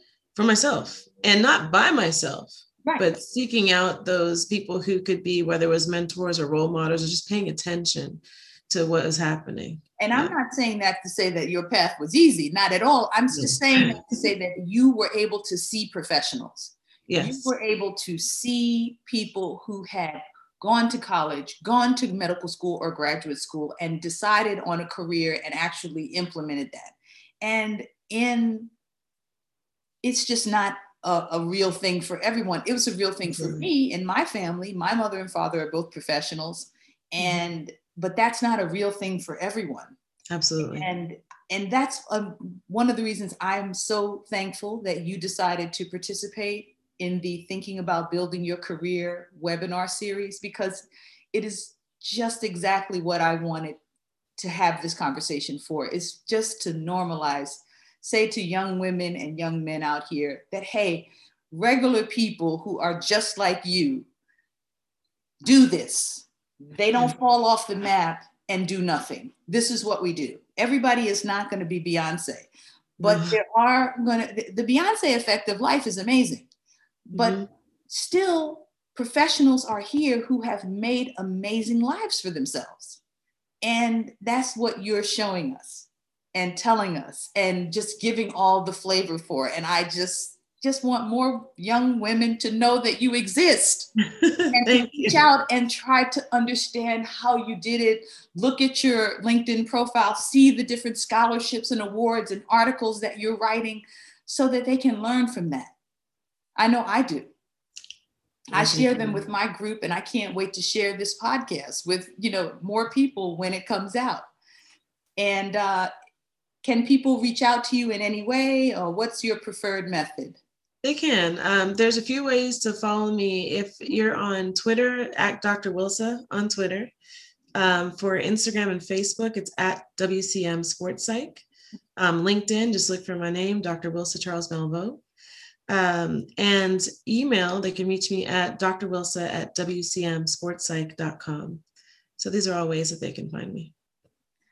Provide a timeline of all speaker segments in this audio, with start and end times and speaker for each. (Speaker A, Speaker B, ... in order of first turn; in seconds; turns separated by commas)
Speaker A: 0.3-10.3, Speaker B: 2.9-3.1, Speaker B: 10.0-28.7, Speaker A: 13.3-13.9, Speaker A: 17.1-17.5, Speaker B: 30.0-40.0, Speaker A: 33.3-33.7, Speaker A: 40.3-40.9, Speaker B: 40.6-53.8, Speaker B: 54.4-64.1, Speaker B: 65.4-76.5, Speaker A: 73.0-73.4, Speaker B: 77.1-83.0, Speaker A: 77.1-77.5, Speaker B: 83.6-93.9, Speaker A: 94.0-95.2, Speaker B: 94.5-105.7, Speaker B: 106.5-107.3, Speaker B: 108.5-114.2, Speaker A: 108.5-109.2, Speaker B: 115.2-115.9, Speaker B: 116.6-120.4, Speaker A: 120.8-126.9, Speaker A: 127.5-131.4, Speaker A: 131.9-135.0, Speaker A: 135.7-141.6, Speaker A: 142.2-143.7